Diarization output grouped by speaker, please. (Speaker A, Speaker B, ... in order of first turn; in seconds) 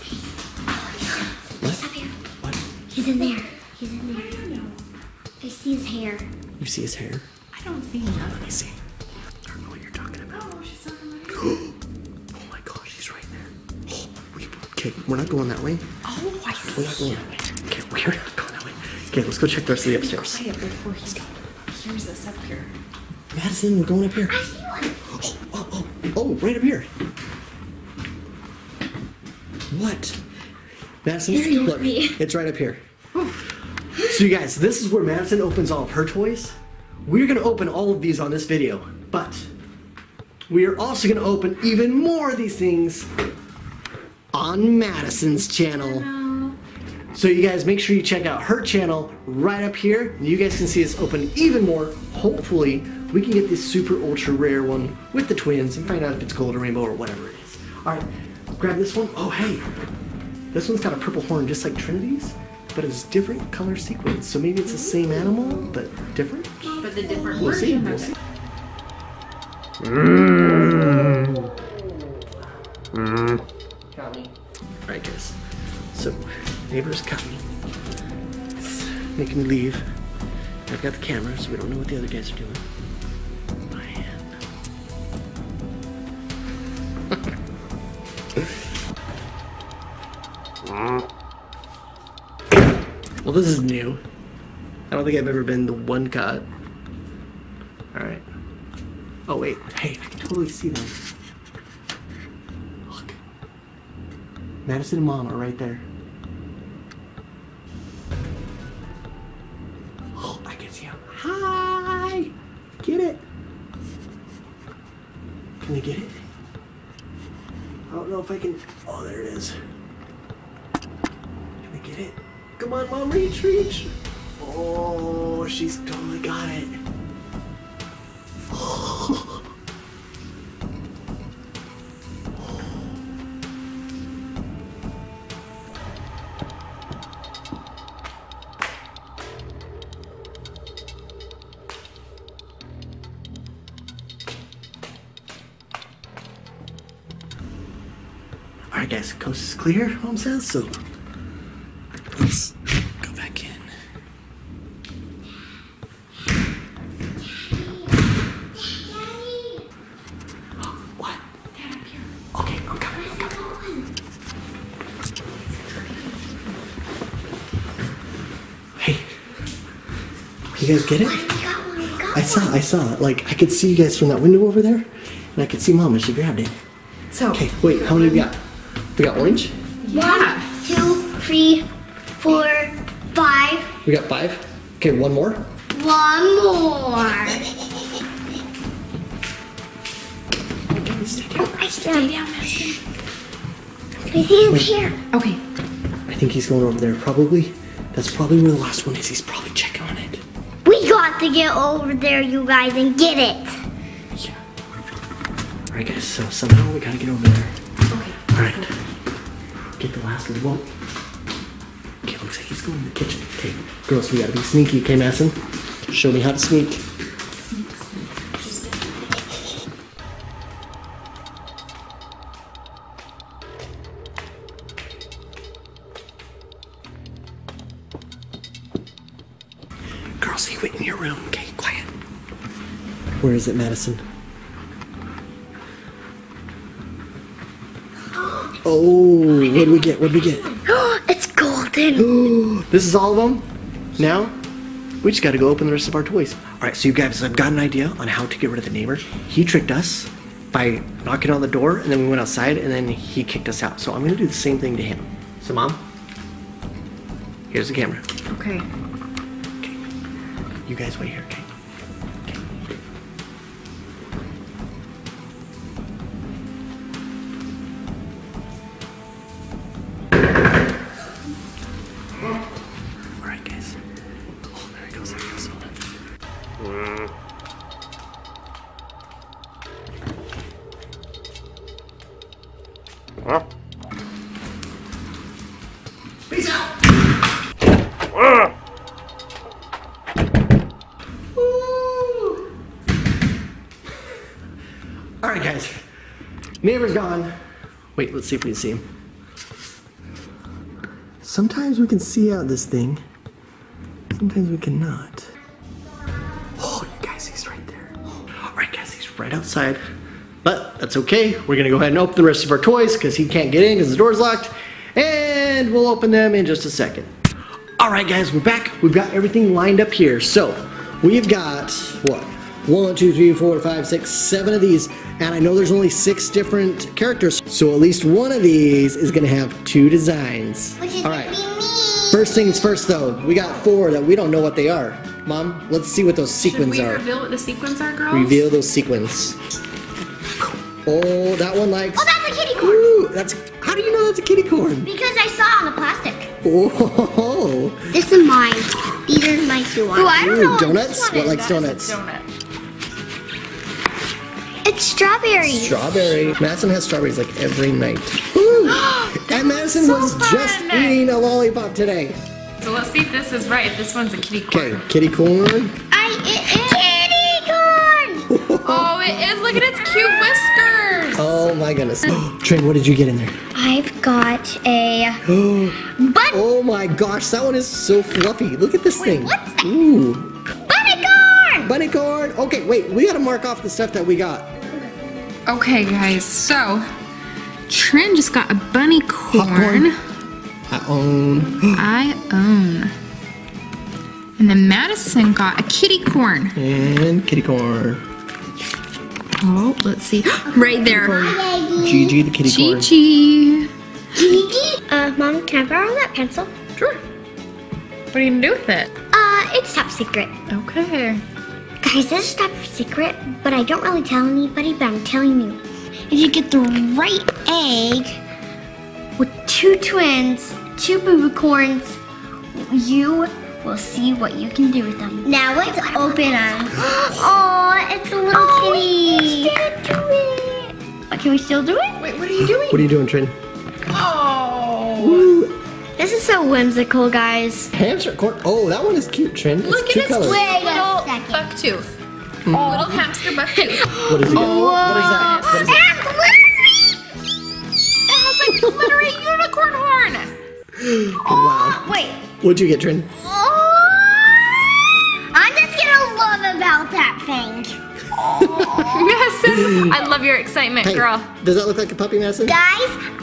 Speaker A: 1.6-1.9, 6.6-7.3, 8.2-8.8, 9.5-10.4, 11.3-11.7, 12.3-15.8, 16.7-20.4, 23.3-24.4, 25.1-26.9, 29.7-30.2, 31.0-32.8, 34.0-39.5, 40.5-43.1, 44.3-46.1, 47.1-58.1, 58.6-59.6, 60.5-68.2, 70.0-71.7, 73.9-74.3, 74.8-75.4, 75.9-77.4, 78.6-79.8, 80.7-82.6, 83.7-84.3, 93.2-94.0, 94.9-96.5, 97.9-98.2, 99.3-101.0, 102.9-103.2, 104.7-105.8, 110.2-113.2, 115.6-116.2, 117.9-119.5, 121.6-126.8, 128.5-129.4, 148.7-150.8, 152.1-153.7, 160.6-161.2, 162.3-163.4, 168.8-169.1, 170.6-171.4, 172.1-176.5, 177.3-178.4, 179.0-179.5, 183.8-185.4, 190.9-191.6, 194.5-194.7, 196.1-200.2, 205.7-207.5, 208.3-208.7, 209.8-210.7, 212.0-215.3, 215.9-216.8, 230.2-231.9, 233.2-234.0, 238.6-240.5, 241.9-243.4, 244.0-244.3, 245.0-255.8, 257.5-258.0, 260.7-261.5, 273.2-273.8, 274.5-275.7, 286.3-286.7, 291.3-292.4, 295.2-295.8, 296.6-297.3, 297.9-298.8, 301.2-303.0, 304.1-305.3, 306.6-309.8, 310.4-317.1, 317.8-331.4, 332.1-337.0, 338.1-339.4, 340.8-344.9, 346.4-347.9, 350.0-352.0, 355.4-362.2, 364.5-365.8, 368.3-368.9, 371.1-373.3, 375.2-375.8, 376.3-380.3, 381.6-384.5, 389.3-389.9, 390.7-391.9, 396.5-398.0, 400.9-402.9, 432.5-433.4, 434.9-435.6, 437.7-440.4, 442.4-443.1, 444.1-445.9, 450.8-453.1, 458.3-458.9, 459.4-459.9, 460.8-462.6
Speaker B: 1.6-2.1, 2.9-4.4, 5.4-6.3, 24.3-24.9, 31.3-32.2, 157.2-158.0, 158.5-159.6, 162.9-163.9, 170.9-172.6, 179.9-181.7, 182.2-183.7, 185.7-187.4, 191.3-192.2, 194.0-194.9, 200.6-203.6, 240.7-242.1, 330.8-332.4, 341.9-342.8, 344.8-346.3, 347.9-350.6, 354.6-356.1, 365.9-368.3, 373.5-375.2, 375.9-376.4, 379.0-379.7, 380.7-381.7, 400.8-402.2, 404.1-406.5, 409.1-410.3, 411.8-418.2, 419.2-422.0, 422.5-429.6, 431.1-432.0, 436.0-437.7, 440.2-441.5, 443.9-446.7, 451.2-452.2, 453.2-457.8, 462.4-463.0
Speaker C: 4.1-4.8, 7.5-8.6, 10.3-11.6, 16.0-17.4, 19.8-22.7, 45.8-46.5, 66.7-68.2, 161.5-162.1, 165.7-165.9, 177.1-178.2, 179.8-180.5, 190.7-192.8, 195.1-195.4, 207.9-208.7, 217.5-218.7, 258.3-258.7, 336.4-338.5, 350.2-352.2, 358.6-361.0, 362.6-364.8, 368.6-371.4, 385.4-386.9, 387.7-390.0, 391.7-392.9, 394.4-396.6, 399.4-401.3, 402.4-403.7, 408.1-408.9, 410.5-411.2, 428.3-430.7, 432.0-432.9, 433.9-435.3, 439.6-441.9, 442.5-445.7, 448.1-450.3, 458.3-461.3